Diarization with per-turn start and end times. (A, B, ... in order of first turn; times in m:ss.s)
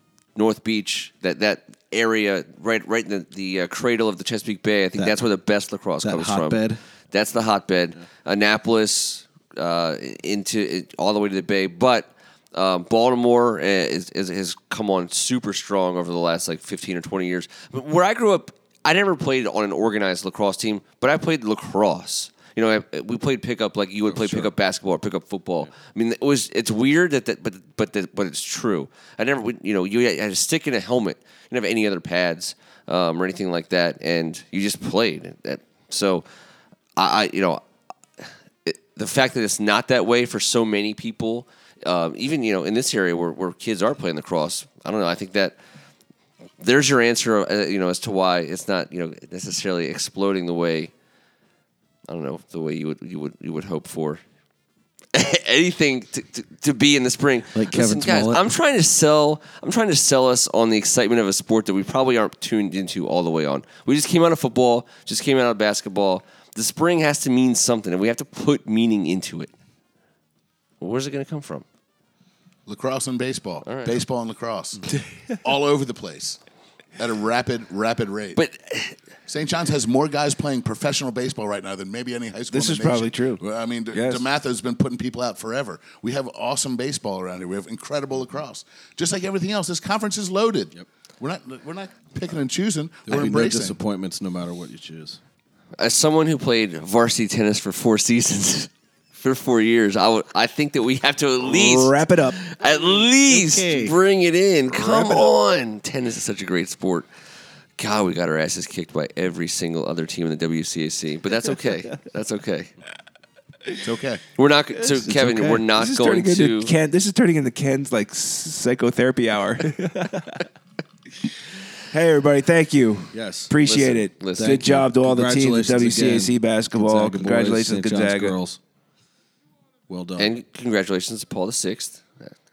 0:00.4-0:36.2 A
0:06.0-0:06.8 B
0:24.0-0:24.5 B
0:37.0-0:37.6 A
0:38.6-0:45.6 A
0:46.6-0:50.9 A
0:52.1-0:54.2 A
0:55.1-1:09.5 A
0:57.5-0:58.4 B
1:10.8-1:11.6 A
1:12.6-1:16.4 C
1:13.6-1:14.0 A
1:17.0-1:18.4 C
1:18.3-1:19.0 A
1:19.3-1:33.8 C
1:22.5-1:24.3 D
1:33.0-1:35.2 B
1:35.8-1:47.1 A
1:41.4-1:42.4 D
1:43.2-1:44.0 B
1:44.7-1:45.3 C
1:47.8-1:52.7 A
1:53.8-1:54.2 C
1:54.4-1:56.7 A
1:54.9-1:55.7 B
1:55.7-2:00.4 D
2:01.9-2:08.4 D
2:03.1-2:03.6 B
2:03.6-2:04.7 A
2:04.3-2:08.6 B
2:09.9-2:10.3 B
2:10.2-2:12.3 A